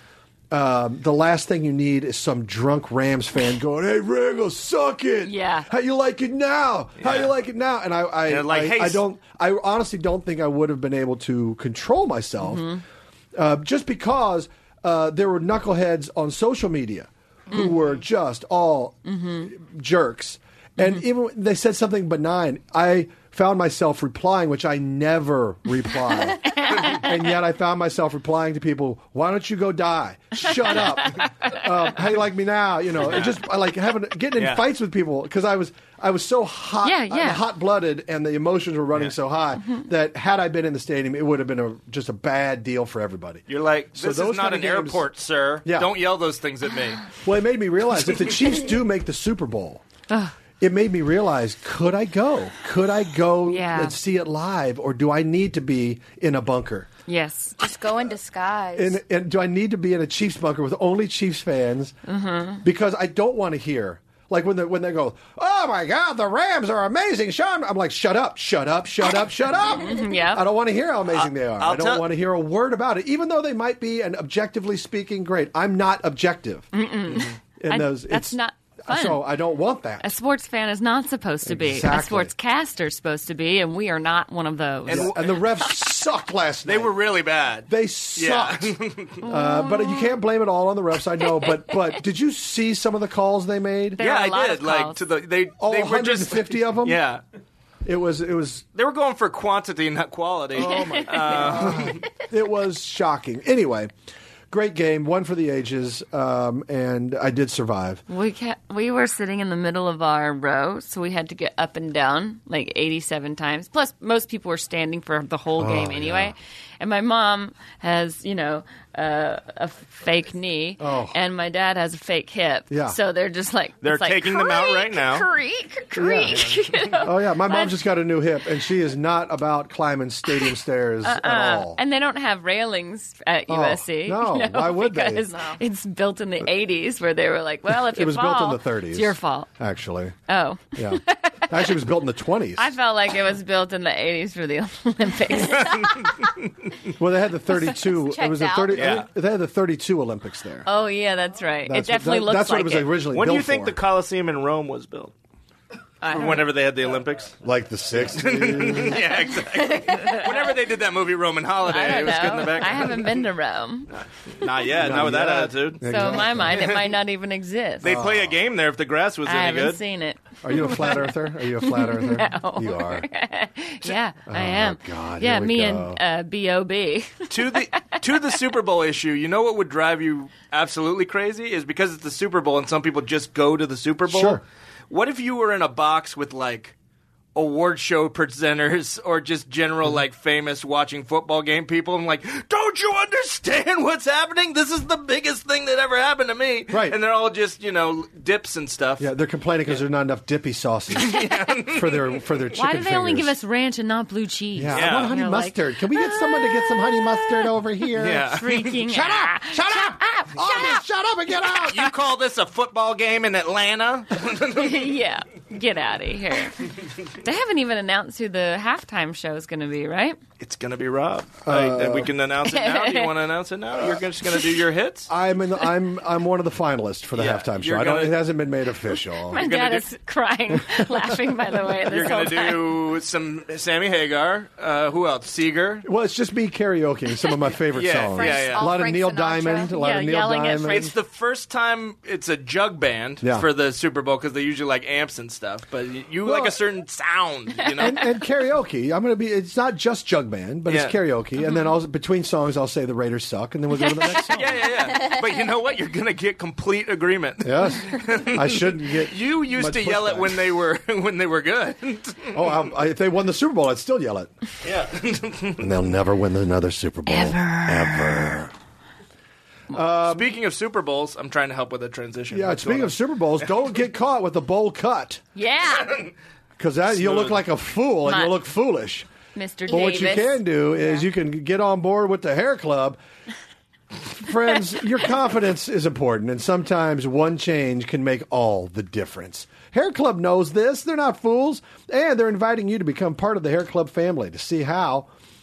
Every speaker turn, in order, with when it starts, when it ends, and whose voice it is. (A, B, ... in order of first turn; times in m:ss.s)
0:00.5-0:12.7 A
0:05.2-0:05.7 B
0:07.0-0:07.3 C
0:08.3-0:09.0 C
0:12.4-0:12.8 B
0:13.4-0:45.0 A
0:19.1-0:19.5 B
0:26.5-0:27.1 B
0:31.1-0:31.6 B
0:33.0-0:33.4 C
0:34.4-0:34.6 C
0:36.8-0:37.5 B
0:43.5-0:47.1 C
0:45.6-0:45.9 A
0:47.2-0:49.8 A
0:50.6-0:56.9 A
0:53.5-0:54.0 B
0:57.1-0:57.6 B
0:57.6-0:59.0 D
0:58.8-1:02.0 A
1:02.1-1:02.6 B
1:02.6-1:16.7 A
1:09.7-1:10.5 B
1:11.1-1:12.0 C
1:16.7-1:19.3 B
1:17.6-1:20.1 A
1:20.0-1:25.1 B
1:21.4-1:22.3 A
1:24.9-1:25.2 C
1:24.9-1:27.0 A
1:26.7-1:29.3 C
1:27.7-1:34.0 A
1:29.3-1:30.2 B
1:31.4-1:31.7 B
1:34.0-1:35.0 B
1:34.0-1:37.2 C
1:35.6-1:37.0 A
1:37.8-1:38.6 A
1:38.8-1:42.1 C
1:40.5-1:43.9 A
1:40.6-1:41.7 B
1:44.5-1:48.0 A
1:48.1-2:07.8 B
1:55.6-1:56.4 A
2:00.8-2:01.2 A
2:02.7-2:03.0 A
2:03.8-2:05.3 C
2:06.0-2:11.8 A
2:06.3-2:07.0 C
2:11.0-2:19.5 B
2:13.5-2:15.3 A
2:15.2-2:15.6 D
2:17.7-2:20.2 A
2:20.3-2:21.7 B
2:20.7-2:22.7 A
2:22.6-2:26.1 B
2:25.7-2:26.2 C
2:27.0-2:30.7 A
2:27.9-2:29.0 D
2:28.7-2:29.1 C
2:30.7-2:32.9 B
2:31.7-2:33.8 A
2:33.1-2:35.1 C
2:36.0-2:36.4 B
2:36.0-2:37.4 C
2:37.4-2:39.1 A
2:38.0-2:43.2 C
2:39.7-2:40.2 B
2:41.6-2:43.9 B
2:43.9-2:46.9 C
2:44.7-2:46.8 A
2:45.9-2:47.9 B
2:47.8-2:49.8 C
2:47.8-2:48.4 A
2:49.3-2:51.0 B
2:50.4-2:53.1 A
2:51.6-2:57.3 B
2:54.3-2:56.0 A
2:57.3-3:06.8 C
3:04.1-3:04.4 A
3:07.4-3:19.1 C
3:16.7-3:17.0 A
3:19.0-3:23.3 A
3:21.0-3:22.2 C
3:22.6-3:27.5 B
3:24.6-3:31.9 A
3:24.7-3:25.1 C
3:28.0-3:28.8 C
3:28.3-3:30.8 B
3:31.7-3:34.9 C
3:34.5-3:40.2 B
3:40.4-3:45.1 C
3:41.5-3:42.1 A
3:42.5-3:43.1 B
3:45.1-3:49.4 A
3:47.1-3:48.2 C
3:49.3-3:52.6 B
3:49.3-3:49.9 C
3:51.9-3:55.9 C
3:55.8-4:00.9 A
3:57.7-3:58.7 C
3:58.1-3:59.7 D
3:59.7-4:00.9 B
4:00.6-4:08.0 C
4:03.2-4:03.5 A
4:06.2-4:06.6 A
4:07.8-4:14.7 A
4:10.7-4:11.0 C
4:11.4-4:11.7 B
4:13.8-4:14.1 B
4:14.3-4:22.5 C
4:17.4-4:20.5 A
4:22.3-4:24.3 A
4:24.6-4:25.6 C
4:25.6-4:28.5 A
4:27.1-4:28.4 B
4:29.7-4:30.3 A
4:30.0-4:33.0 C
4:32.3-4:35.2 A
4:35.4-4:36.0 B
4:35.7-4:36.1 C
4:36.6-4:39.1 A
4:36.9-4:37.4 C
4:38.0-4:38.4 B
4:39.4-4:41.0 B
4:39.7-4:43.0 A
4:44.0-4:55.1 A